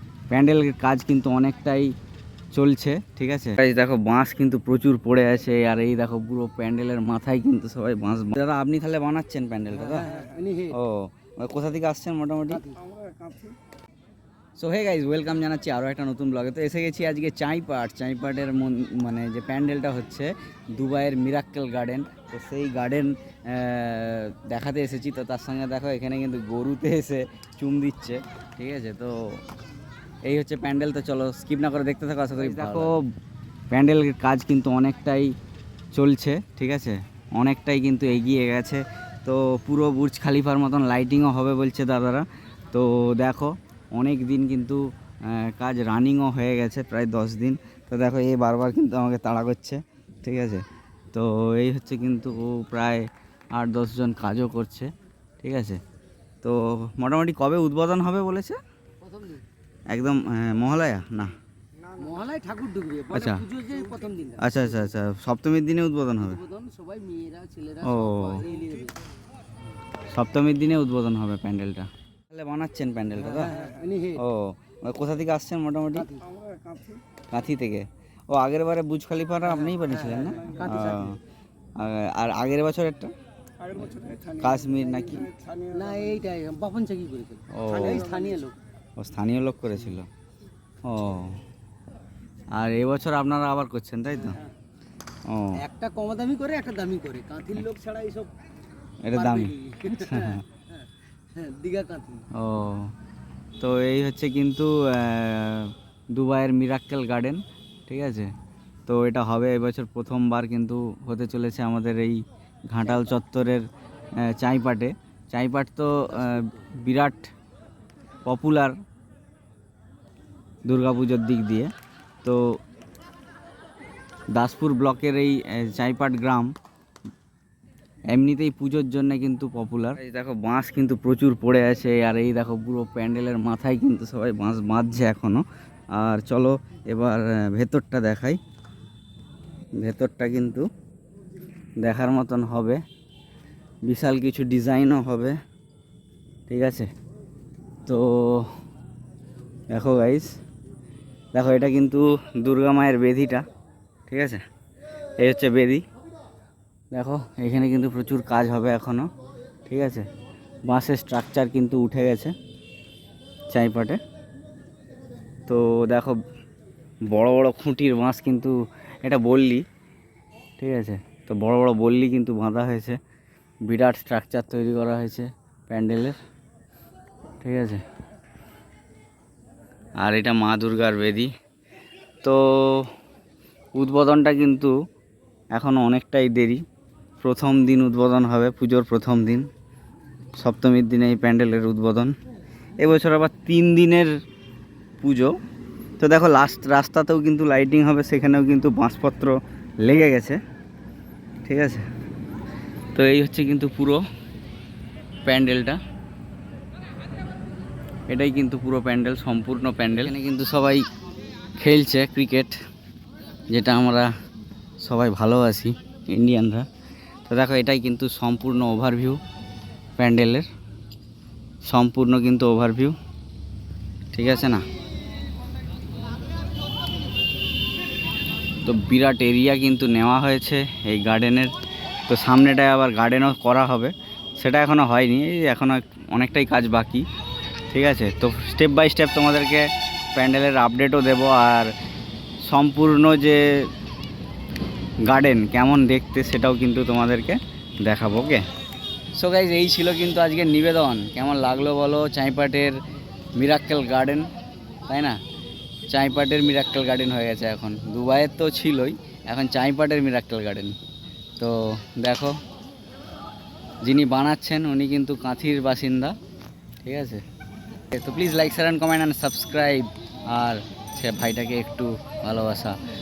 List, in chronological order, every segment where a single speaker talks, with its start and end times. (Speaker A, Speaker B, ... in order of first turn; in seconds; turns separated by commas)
Speaker A: 0.3-1.9, Speaker A: 2.5-12.7, Speaker B: 9.9-10.7, Speaker B: 12.6-12.9, Speaker A: 14.6-29.4, Speaker A: 30.2-33.0, Speaker A: 33.7-35.3, Speaker A: 35.9-55.8, Speaker A: 56.4-58.6, Speaker B: 59.1-59.4, Speaker A: 59.9-61.3, Speaker B: 61.9-64.6, Speaker A: 63.1-63.5, Speaker A: 64.4-66.4, Speaker B: 66.3-68.9, Speaker A: 67.8-68.5, Speaker A: 70.1-73.6, Speaker B: 73.4-74.2, Speaker A: 74.1-76.1, Speaker A: 77.3-81.2, Speaker B: 80.4-80.8, Speaker A: 81.8-83.1, Speaker A: 83.8-85.3, Speaker B: 85.6-88.5, Speaker A: 87.5-88.1, Speaker A: 89.0-90.1, Speaker A: 90.8-91.4, Speaker A: 92.5-94.4, Speaker A: 95.2-95.7, Speaker B: 95.6-98.3, Speaker A: 99.0-100.4, Speaker B: 99.2-100.4, Speaker B: 101.3-102.3, Speaker A: 102.3-102.9, Speaker A: 103.6-108.3, Speaker A: 108.9-117.3, Speaker A: 118.2-118.8, Speaker A: 120.7-121.7, Speaker A: 122.2-122.6, Speaker A: 124.3-126.5, Speaker A: 128.1-138.4, Speaker A: 139.8-140.7, Speaker A: 141.8-142.8, Speaker A: 143.8-145.3, Speaker A: 146.5-146.9, Speaker A: 147.8-148.5, Speaker A: 149.7-150.3, Speaker A: 151.3-153.4, Speaker A: 154.1-154.4, Speaker A: 155.2-155.8, Speaker A: 156.9-159.1, Speaker A: 159.7-160.1, Speaker A: 160.7-162.3, Speaker A: 163.5-164.0, Speaker A: 165.5-166.2, Speaker A: 167.1-169.6, Speaker A: 170.6-173.0, Speaker A: 173.6-176.2, Speaker A: 177.4-177.8, Speaker A: 180.0-181.3, Speaker A: 182.2-182.9, Speaker A: 183.7-184.7, Speaker A: 185.5-186.6, Speaker A: 187.2-189.5, Speaker A: 190.4-192.1, Speaker A: 192.8-194.1, Speaker A: 195.0-195.3, Speaker A: 196.0-200.4, Speaker A: 201.4-201.8, Speaker A: 202.9-204.0, Speaker A: 205.2-205.8, Speaker A: 208.1-210.8, Speaker A: 211.6-212.6, Speaker A: 213.5-214.1, Speaker A: 214.8-216.7, Speaker A: 217.3-219.2, Speaker A: 220.0-220.5, Speaker A: 221.6-222.9, Speaker A: 224.1-224.6, Speaker A: 228.6-231.5, Speaker A: 232.1-237.1, Speaker A: 237.7-241.7, Speaker A: 242.4-243.7, Speaker A: 245.0-248.4, Speaker A: 249.1-252.8, Speaker A: 253.3-254.3, Speaker A: 254.9-255.2, Speaker A: 255.9-260.8, Speaker A: 261.4-262.4, Speaker A: 263.8-266.1, Speaker A: 266.8-267.2, Speaker A: 267.9-272.8